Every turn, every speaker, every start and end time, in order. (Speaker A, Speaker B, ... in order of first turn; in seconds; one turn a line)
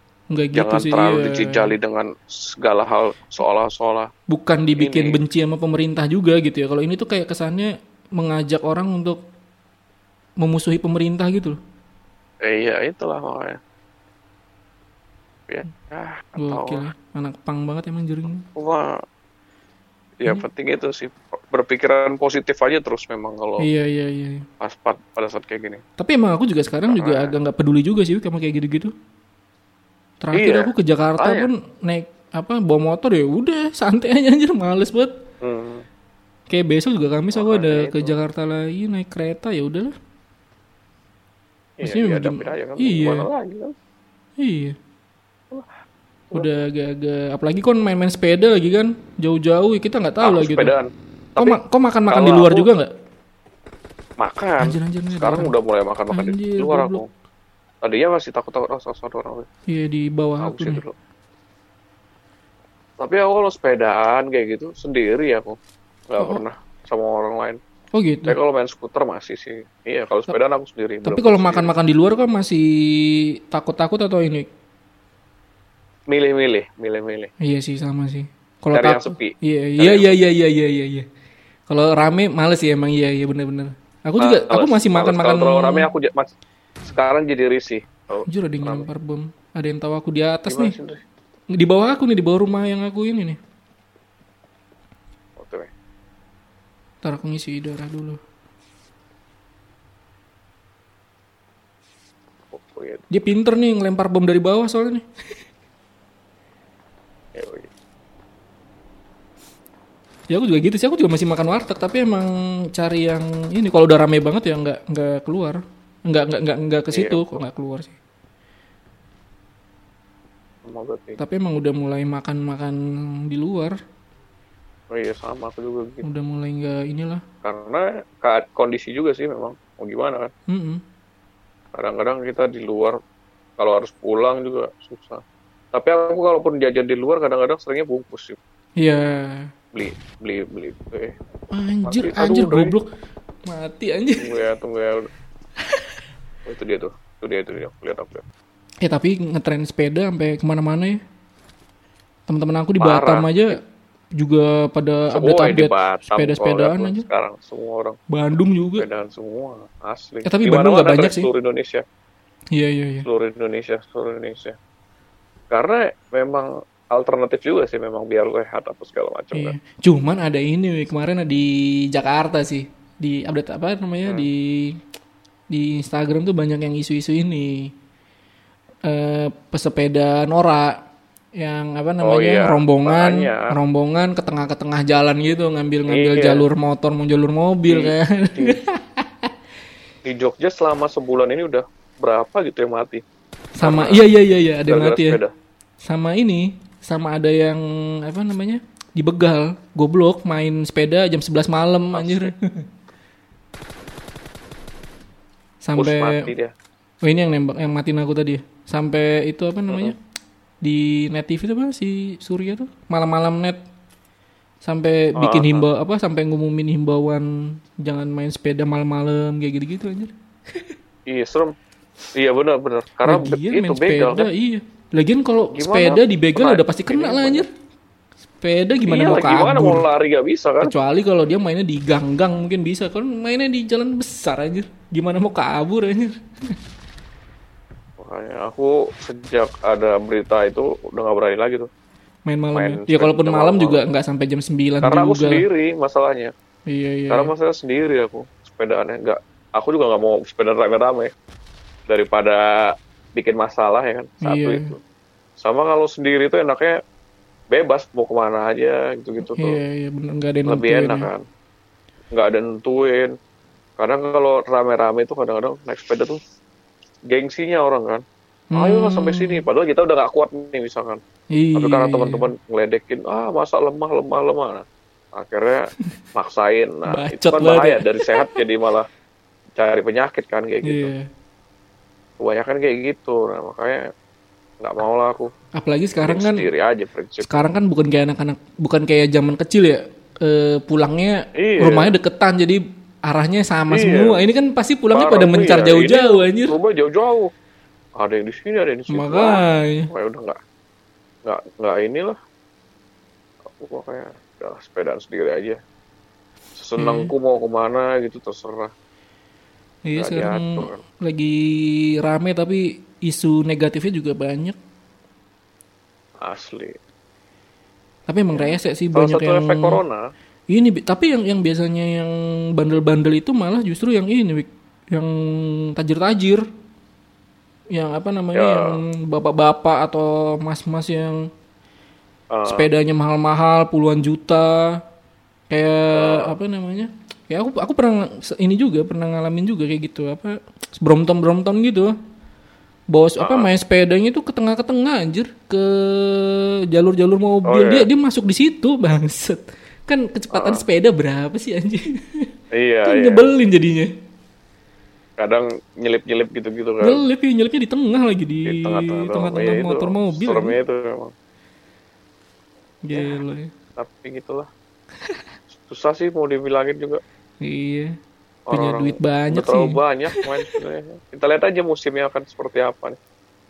Speaker A: 0.3-1.7
Speaker B: 0.5-4.1
Speaker A: 4.3-9.2
Speaker B: 4.8-5.2
Speaker A: 10.4-11.6
Speaker B: 12.4-13.6
Speaker B: 15.5-16.9
Speaker A: 16.4-18.4
Speaker B: 18.5-19.0
Speaker B: 20.2-23.7
Speaker A: 23.6-24.4
Speaker B: 24.6-25.8
Speaker A: 26.0-28.9
Speaker B: 26.9-27.3
Speaker A: 30.2-35.1
Speaker B: 30.3-31.5
Speaker B: 35.4-35.8
Speaker A: 36.5-39.9
Speaker B: 37.3-38.1
Speaker B: 41.8-43.7
Speaker A: 41.8-43.3
Speaker A: 44.4-44.8
Speaker A: 46.3-50.7
Speaker B: 50.2-52.7
Speaker A: 51.4-52.9
Speaker B: 54.2-57.1
Speaker A: 54.6-55.5
Speaker A: 56.1-57.0
Speaker B: 57.8-59.5
Speaker A: 59.7-60.8
Speaker B: 60.4-60.9
Speaker B: 63.0-65.6
Speaker B: 66.1-67.6
Speaker A: 67.9-68.4
Speaker B: 68.3-71.7
Speaker A: 71.0-74.5
Speaker B: 76.1-77.3
Speaker A: 77.4-81.0
Speaker B: 78.7-80.1
Speaker A: 81.7-85.9
Speaker B: 84.2-86.3
Speaker B: 86.8-88.9
Speaker A: 88.2-90.7
Speaker B: 90.5-91.0
Speaker A: 91.5-93.4
Speaker B: 95.4-95.7
Speaker A: 97.0-98.2
Speaker B: 102.5-103.0
Speaker A: 103.1-105.0
Speaker B: 107.3-107.7
Speaker A: 110.3-117.9
Speaker B: 116.9-117.3
Speaker B: 120.6-121.2
Speaker A: 121.2-123.8
Speaker B: 124.9-126.0
Speaker A: 126.0-127.2
Speaker B: 127.4-130.3
Speaker A: 130.5-130.8
Speaker B: 131.7-133.0
Speaker B: 133.6-135.2
Speaker B: 135.7-138.4
Speaker A: 138.8-139.5
Speaker B: 139.7-141.2
Speaker A: 141.5-142.8
Speaker B: 141.8-142.7
Speaker A: 143.5-144.3
Speaker B: 144.2-145.1
Speaker B: 146.4-148.2
Speaker A: 148.8-151.0
Speaker A: 152.3-153.6
Speaker B: 152.8-153.6
Speaker A: 154.2-157.1
Speaker B: 155.1-158.0
Speaker A: 158.1-158.9
Speaker B: 158.8-161.8
Speaker A: 160.2-161.3
Speaker A: 162.5-163.1
Speaker B: 163.0-164.6
Speaker B: 165.5-169.5
Speaker A: 169.3-174.8
Speaker A: 175.5-177.7
Speaker A: 178.8-180.8
Speaker A: 181.4-189.3
Speaker B: 182.0-183.5
Speaker B: 185.9-186.4
Speaker B: 187.7-188.6
Speaker B: 190.0-193.0
Speaker A: 193.6-195.2
Speaker B: 193.6-194.0
Speaker B: 194.7-195.3
Speaker A: 195.8-202.6
Speaker B: 201.9-202.3
Speaker A: 205.6-206.3
Speaker B: 205.8-206.5
Speaker A: 207.0-209.9
Speaker A: 210.6-213.6
Speaker A: 214.6-220.7
Speaker B: 215.2-215.7
Speaker B: 221.1-221.5
Speaker B: 222.1-224.3
Speaker A: 223.0-227.5
Speaker B: 225.5-227.4
Speaker A: 228.4-229.8
Speaker B: 228.8-230.7
Speaker A: 230.6-236.2
Speaker B: 238.0-241.7
Speaker A: 242.3-245.4
Speaker B: 242.5-243.8
Speaker B: 244.8-246.3
Speaker A: 246.7-247.3
Speaker B: 247.1-251.1
Speaker B: 251.9-254.8
Speaker A: 254.2-254.7
Speaker B: 255.4-256.8
Speaker B: 257.5-259.6
Speaker A: 259.2-261.1
Speaker B: 260.5-261.2
Speaker B: 262.1-263.1
Speaker B: 263.8-266.2
Speaker B: 267.1-268.0
Speaker A: 268.5-269.4
Speaker B: 268.6-271.0
Speaker A: 271.3-272.3
Speaker B: 271.5-278.9
Speaker A: 276.9-278.3
Speaker B: 279.6-280.9
Speaker A: 280.6-281.1
Speaker B: 282.2-283.8
Speaker B: 284.6-285.3
Speaker A: 285.6-286.4
Speaker B: 286.0-287.5
Speaker A: 287.2-296.6
Speaker B: 291.4-291.9
Speaker B: 293.7-294.2
Speaker B: 294.9-297.3
Speaker B: 298.0-300.4
Speaker A: 298.9-299.9
Speaker B: 301.2-302.2
Speaker B: 303.4-305.6
Speaker B: 306.6-308.7
Speaker A: 306.8-307.1
Speaker A: 309.9-314.6
Speaker B: 309.9-310.8
Speaker B: 316.2-316.8
Speaker A: 318.1-319.8
Speaker B: 318.3-320.1
Speaker A: 320.5-326.4
Speaker A: 327.7-331.3
Speaker B: 328.3-328.8
Speaker B: 332.3-332.7
Speaker A: 332.4-334.8
Speaker A: 335.5-341.9
Speaker B: 335.9-336.3
Speaker A: 342.9-352.3
Speaker B: 343.2-343.5
Speaker B: 347.4-347.9
Speaker B: 350.3-350.6
Speaker B: 352.5-353.3
Speaker A: 352.8-353.9
Speaker B: 355.2-357.0
Speaker A: 356.8-360.6
Speaker B: 358.4-361.1
Speaker A: 362.8-363.5
Speaker B: 363.8-364.5
Speaker B: 365.5-367.0
Speaker A: 367.4-367.9
Speaker B: 368.5-373.0
Speaker A: 368.5-370.5